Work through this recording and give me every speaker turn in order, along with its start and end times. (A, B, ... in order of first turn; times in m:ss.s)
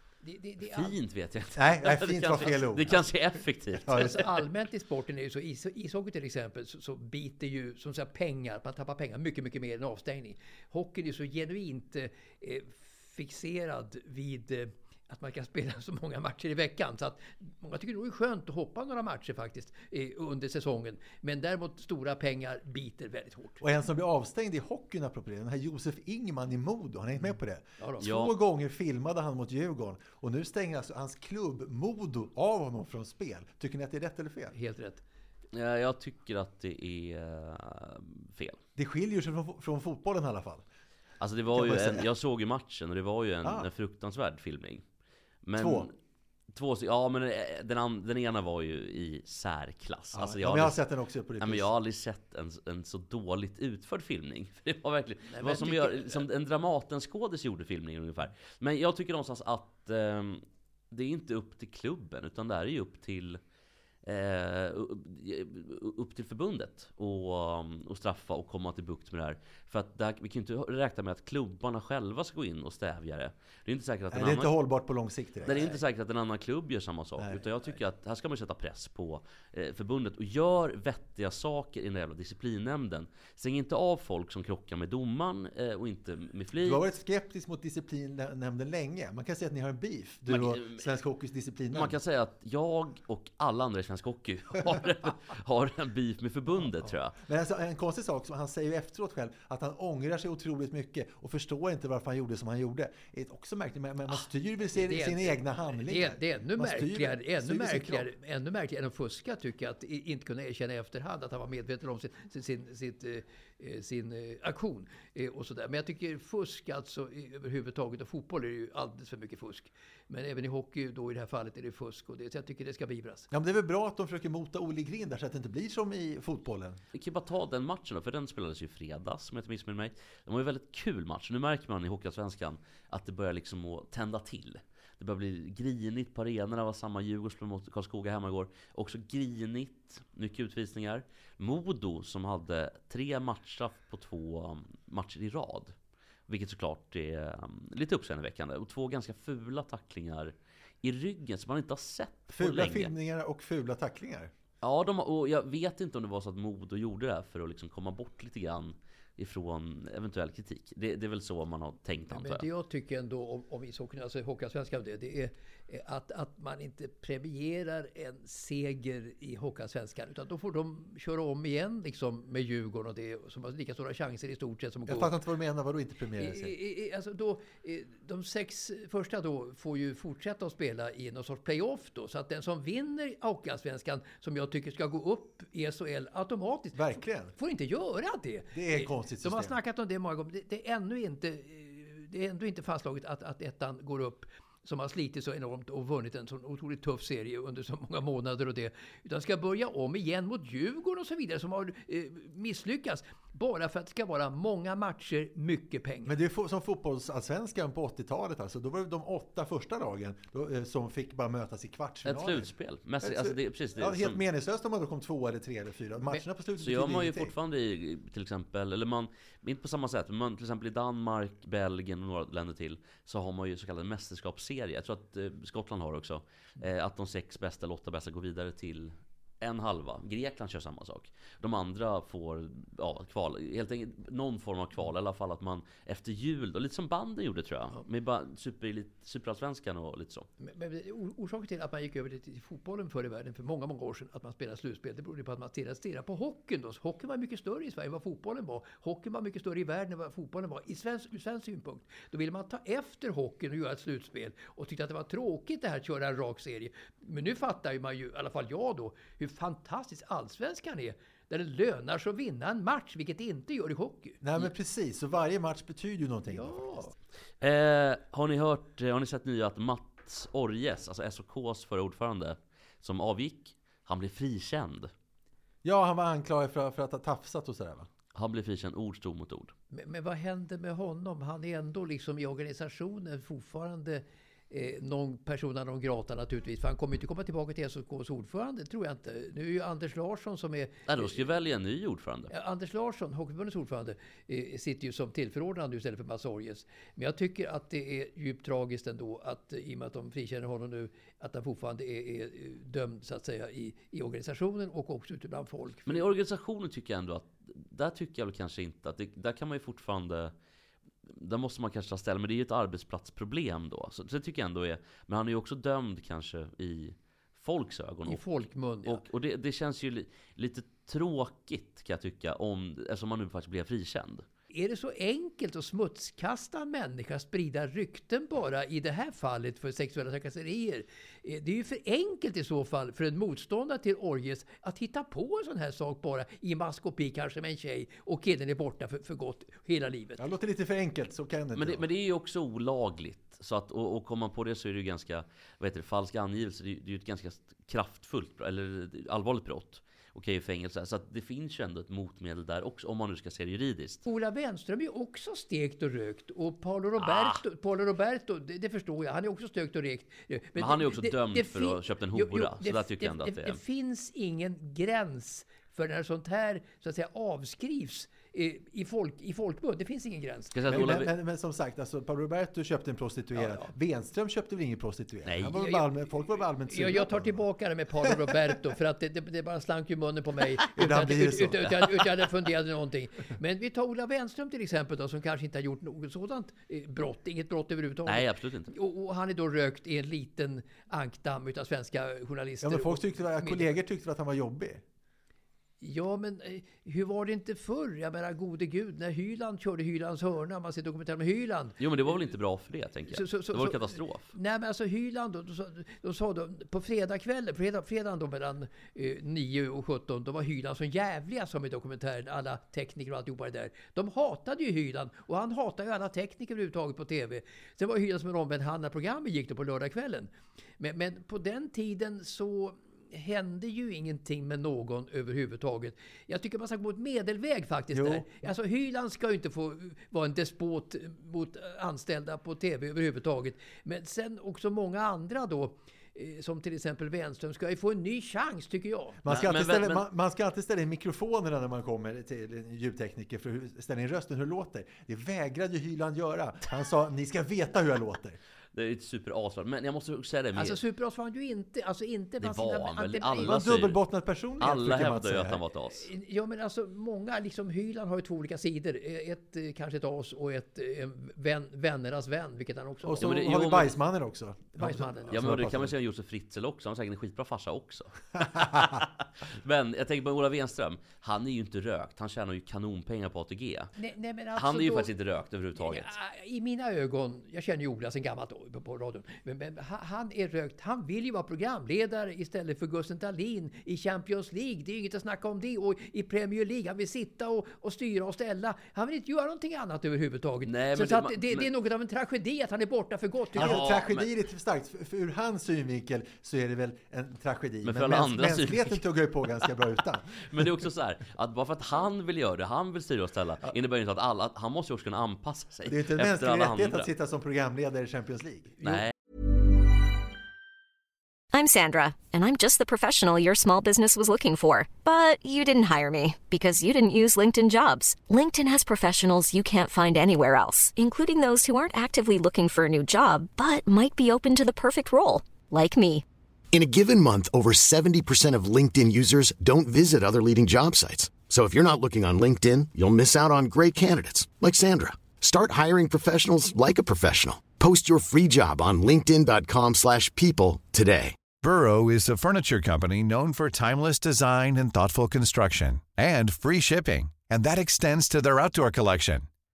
0:00.2-0:01.0 A
0:00.6-0:04.3 B
0:01.6-0:03.1 C
0:03.8-0:04.2 C
0:03.9-0:23.6 A
0:23.6-0:34.6 C
0:27.8-0:28.1 A
0:28.0-0:28.3 B
0:34.5-0:35.0 A
0:35.5-0:38.6 B
0:38.8-0:40.6 C
0:41.2-0:44.8 B
0:41.5-0:42.1 C
0:43.4-0:43.7 C
0:45.4-0:45.9 B
0:45.6-0:45.9 C
0:46.5-0:50.8 B
0:50.1-0:51.7 C
0:51.4-1:03.4 B
0:55.3-0:56.2 A
1:04.0-1:14.5 B
1:14.1-1:15.8 C
1:15.4-1:26.8 B
1:26.6-1:32.0 C
1:30.3-1:30.9 B
1:31.7-1:37.2 B
1:37.2-1:48.1 C
1:44.8-2:03.3 A
2:03.3-2:06.8 C
2:06.9-2:25.7 B
2:26.3-2:32.9 B
2:32.3-2:34.3 C
2:34.6-2:42.4 B
2:42.1-2:55.1 A
2:54.9-2:56.6 C
2:56.2-3:06.8 A
3:06.8-3:07.3 C
3:07.4-3:26.1 A
3:08.5-3:09.6 C
3:26.0-3:37.3 C
3:32.0-3:34.2 B
3:36.6-4:00.3 B
4:00.4-4:24.2 A
4:24.2-4:26.8 C
4:26.3-4:26.9 A
4:27.4-4:34.9 B
4:35.6-4:37.9 C
4:38.2-4:39.5 B
4:39.7-4:51.2 A
4:50.9-4:52.3 B
4:52.3-5:06.0 A
5:05.9-5:10.3 B
5:11.1-5:18.2 B
5:18.1-5:19.0 A
5:18.8-5:24.2 B
5:24.5-5:40.2 A
5:40.2-5:41.8 C
5:41.6-5:54.0 B
5:54.1-6:10.6 A
5:57.0-5:57.4 B
6:00.6-6:03.6 B
6:10.5-6:11.1 B
6:10.7-6:17.4 C
6:13.4-6:13.7 A
6:15.3-6:15.6 B
6:15.6-6:15.8 A
6:16.7-6:33.8 A
6:20.8-6:21.8 C
6:28.1-6:28.7 B
6:32.6-6:34.8 C
6:35.8-6:41.8 A
6:41.8-6:44.3 B
6:43.1-7:19.2 A
7:07.9-7:08.3 C
7:19.2-7:28.4 C
7:19.3-7:20.1 B
7:28.7-7:30.8 B
7:30.6-7:33.5 A
7:32.4-7:34.0 B
7:33.4-7:35.6 C
7:34.6-7:36.1 B
7:35.9-7:43.4 A
7:43.0-7:45.9 C
7:43.2-7:44.0 B
7:44.8-7:45.5 A
7:45.3-7:49.1 B
7:49.6-7:53.9 B
7:54.0-7:55.1 A
7:54.6-7:56.2 B
7:55.8-8:13.8 A
8:10.6-8:11.7 B
8:13.5-8:20.7 C
8:13.6-8:14.3 B
8:17.8-8:19.0 B
8:20.5-8:27.1 B
8:25.9-8:29.0 C
8:28.8-8:29.1 B
8:31.5-8:46.2 D
8:46.7-9:01.4 E
9:01.6-9:09.5 F